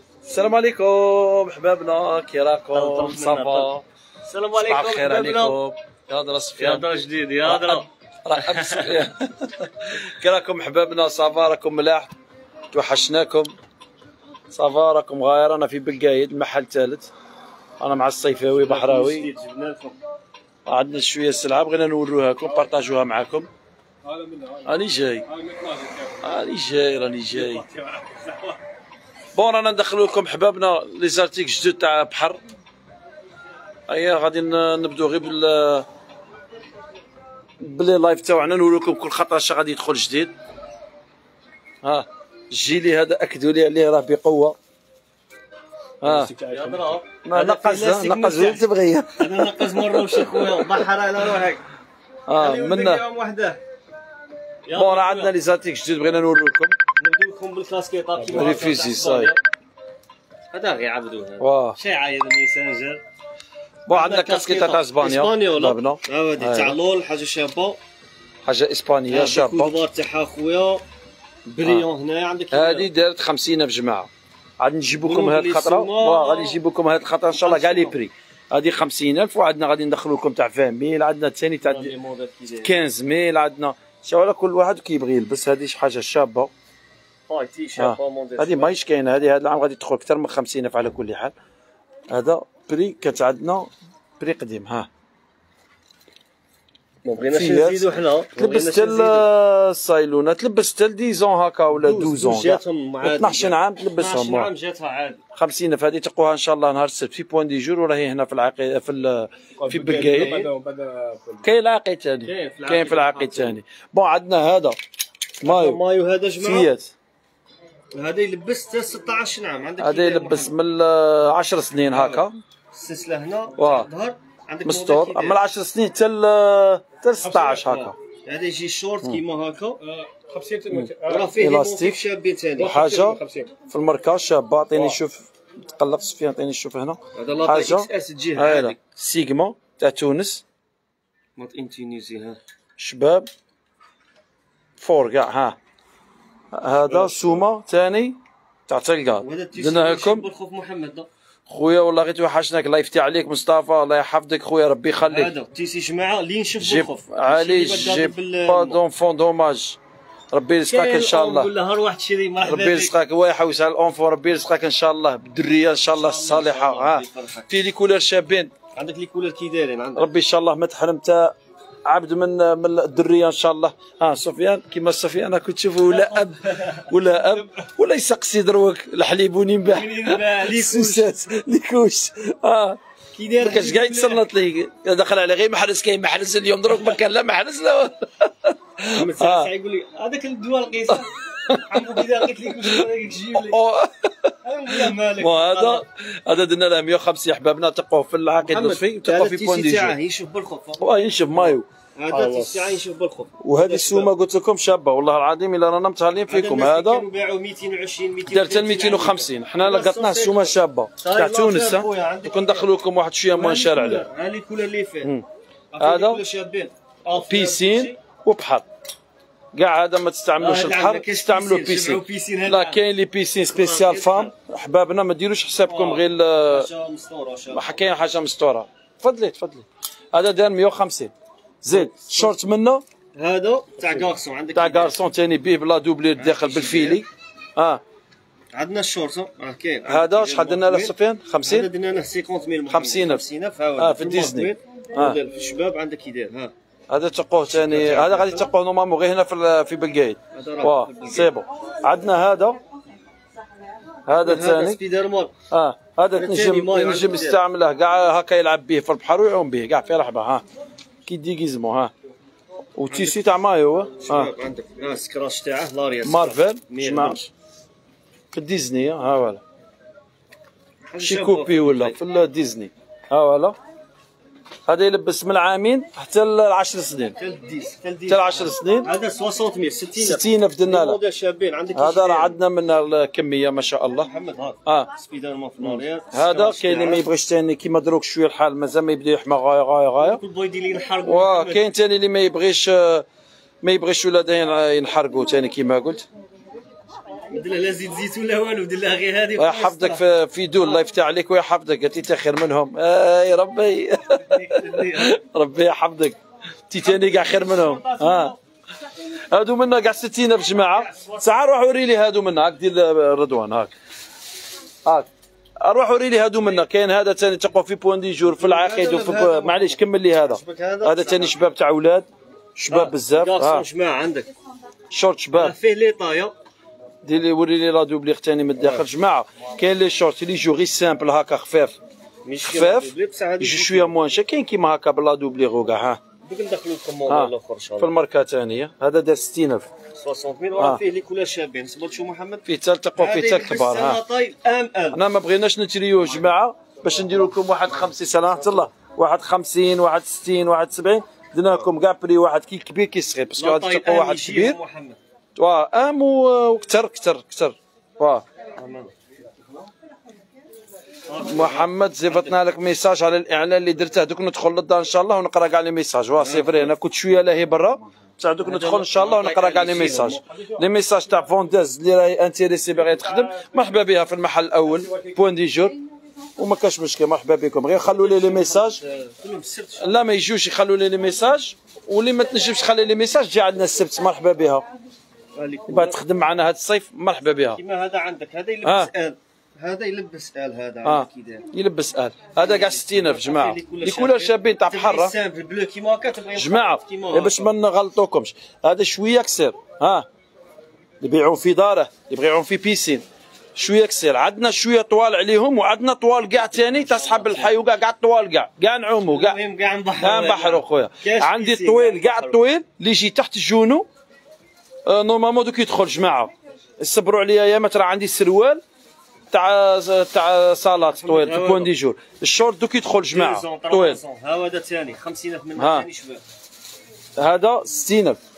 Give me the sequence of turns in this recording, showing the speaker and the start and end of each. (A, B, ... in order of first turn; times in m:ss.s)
0:00.2-0:03.8 A
0:02.7-0:03.7 B
0:04.2-0:05.6 B
0:04.6-0:06.8 A
0:06.6-0:09.0 B
0:07.4-0:12.1 A
0:12.7-0:13.5 A
0:14.5-0:17.1 A
0:17.8-0:19.3 A
0:18.6-0:20.0 B
0:20.7-0:23.5 A
0:24.0-0:24.8 C
0:24.7-0:25.3 A
0:25.3-0:26.3 C
0:26.2-0:27.6 A
0:27.3-0:28.6 C
0:29.4-0:32.4 A
0:33.9-0:35.9 A
0:37.6-0:40.3 A
0:41.8-0:44.6 A
0:46.0-0:46.3 A
0:46.0-0:47.0 C
0:46.5-0:48.7 B
0:47.2-0:50.8 A
0:49.2-0:51.6 B
0:52.3-0:53.0 A
0:52.4-0:53.6 B
0:54.7-0:55.3 B
0:54.8-0:56.8 A
0:57.0-0:59.4 B
0:58.3-0:59.3 A
1:00.5-1:03.0 B
1:01.4-1:01.8 A
1:03.9-1:06.8 A
1:03.9-1:07.8 B
1:08.4-1:09.8 A
1:09.1-1:10.8 B
1:11.5-1:12.9 B
1:11.6-1:11.9 A
1:12.5-1:21.9 A
1:15.0-1:16.6 B
1:17.4-1:18.0 B
1:21.6-1:22.8 B
1:22.6-1:26.5 A
1:27.3-1:28.7 B
1:27.8-1:31.3 A
1:32.1-1:34.9 A
1:37.0-1:39.3 B
1:37.2-1:44.5 A
1:41.8-1:45.2 B
1:45.4-1:50.5 A
1:49.6-1:51.5 C
1:51.4-1:54.8 A
1:52.2-1:53.6 B
1:55.4-1:55.8 A
1:55.4-1:56.7 B
1:56.4-1:56.9 A
1:57.9-2:00.5 B
1:59.8-2:02.4 A
2:01.9-2:05.4 B
2:03.6-2:03.9 A
2:04.7-2:08.0 A
2:07.2-2:07.8 C
2:07.7-2:09.8 B
2:09.8-2:11.3 C
2:10.7-2:12.0 A
2:11.0-2:12.8 B
2:12.6-2:13.5 C
2:12.7-2:20.4 A
2:17.1-2:18.8 B
2:21.4-2:22.4 B
2:22.8-2:23.3 A
2:24.8-2:25.6 A
2:26.5-2:30.3 A
2:26.9-2:27.4 B
2:29.2-2:31.1 B
2:31.5-2:35.3 A
2:35.1-2:38.8 B
2:36.6-2:39.8 A
2:40.3-2:41.5 A
2:40.7-2:43.0 B
2:42.4-2:48.5 A
2:45.9-2:47.5 B
2:48.8-2:50.1 B
2:50.0-2:51.3 A
2:51.8-3:02.8 A
2:55.9-2:56.9 B
2:59.6-3:01.2 B
3:03.1-3:04.2 B
3:03.4-3:09.5 A
3:08.9-3:13.6 B
3:11.4-3:12.1 A
3:13.3-3:20.0 A
3:14.4-3:15.8 B
3:18.4-3:24.1 B
3:20.8-3:22.8 A
3:23.4-3:27.1 A
3:26.3-3:32.7 B
3:28.3-3:34.1 A
3:33.3-3:35.1 B
3:35.7-3:38.0 B
3:35.8-3:36.2 A
3:37.2-3:38.7 A
3:39.5-3:46.7 A
3:40.4-3:42.8 B
3:43.5-3:44.3 B
3:45.6-3:47.8 B
3:47.5-3:52.8 A
3:51.7-3:52.3 B
3:53.2-3:55.0 B
3:53.9-3:57.8 A
3:56.2-3:57.0 B
3:58.5-4:06.5 B
3:59.9-4:01.7 A
4:02.7-4:03.2 A
4:03.8-4:05.2 A
4:06.9-4:12.6 A
4:07.6-4:08.5 B
4:10.3-4:11.4 B
4:14.1-4:14.8 A
4:14.2-4:15.3 B
4:15.5-4:20.4 A
4:16.1-4:17.4 B
4:21.1-4:21.9 A
4:22.8-4:24.3 A
4:22.9-4:23.2 B
4:24.0-4:27.2 B
4:26.0-4:27.3 A
4:28.3-4:29.4 A
4:30.9-4:32.0 B
4:31.0-4:33.6 A
4:34.7-4:37.2 A
4:37.2-4:42.4 B
4:38.1-4:38.9 A
4:40.0-4:41.0 A
4:41.7-4:44.1 A
4:44.0-4:47.1 B
4:45.6-4:50.2 A
4:50.0-4:51.6 B
4:51.0-4:53.1 A
4:53.6-4:56.1 A
4:57.3-5:00.0 B
4:59.4-5:06.2 A
5:04.2-5:05.2 B
5:06.7-5:08.3 A
5:06.8-5:08.4 B
5:09.2-5:13.7 A
5:10.7-5:11.3 B
5:15.6-5:23.7 A
5:18.3-5:21.4 B
5:22.7-5:24.3 B
5:24.9-5:25.6 A
5:25.4-5:26.4 B
5:27.0-5:31.8 A
5:28.6-5:28.9 B
5:32.2-5:34.0 B
5:32.4-5:36.0 A
5:36.2-5:37.9 B
5:37.1-5:39.7 A
5:39.9-5:42.4 B
5:42.5-5:44.0 A
5:43.0-5:45.0 B
5:44.9-5:54.6 A
5:53.4-5:55.0 B
5:55.4-5:58.2 A
5:58.6-5:59.7 B
6:01.1-6:02.4 B
6:01.2-6:15.8 A
6:06.2-6:06.7 B
6:08.4-6:10.2 B
6:10.3-6:10.6 C
6:12.7-6:13.6 C
6:14.7-6:15.2 C
6:16.4-6:18.8 A
6:17.8-6:19.9 B
6:19.8-6:24.6 A
6:25.3-6:26.0 B
6:25.7-6:27.6 A
6:27.6-6:31.5 B
6:28.6-6:28.9 A
6:30.8-6:35.1 A
6:32.4-6:37.5 B
6:36.4-6:40.1 A
6:41.0-6:43.0 A
6:43.6-6:49.4 A
6:46.6-6:47.6 B
6:49.1-6:52.4 B
6:50.0-6:53.9 A
6:54.9-6:58.6 A
6:59.3-7:04.0 A
7:00.9-7:01.7 B
7:03.1-7:06.2 B
7:05.6-7:05.9 A
7:07.2-7:08.2 A